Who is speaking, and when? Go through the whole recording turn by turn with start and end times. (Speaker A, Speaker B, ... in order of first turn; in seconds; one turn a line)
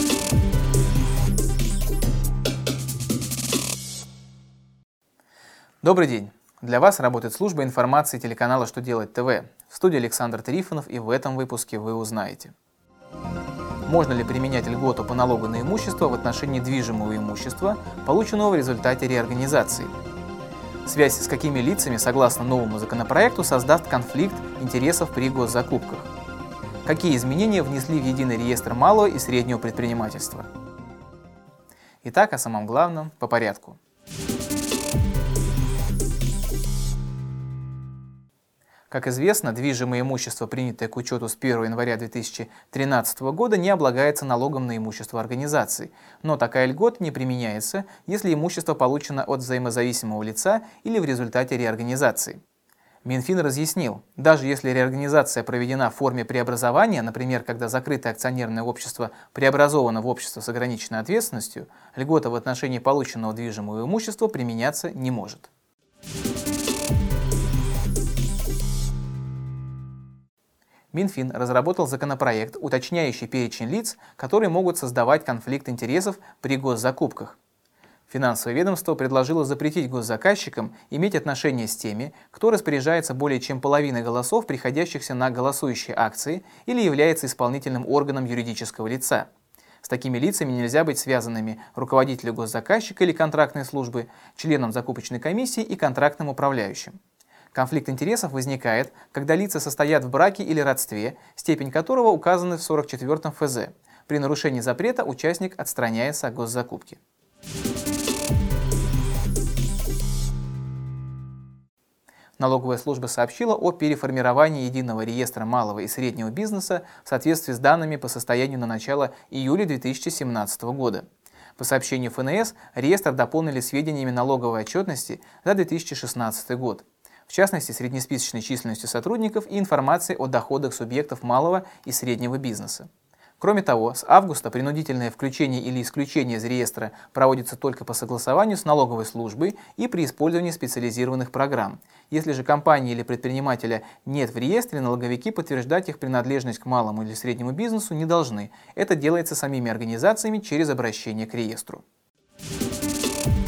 Speaker A: 5.8-12.5
Speaker A: 13.8-19.9
Speaker A: 20.9-26.1
Speaker A: 26.8-30.5
Speaker A: 32.0-33.8
Speaker A: 38.9-52.4
Speaker A: 53.0-65.5
Speaker A: 70.9-77.4
Speaker A: 78.1-89.3
Speaker A: 89.8-97.0
Speaker A: 97.5-107.0
Speaker A: 112.4-151.8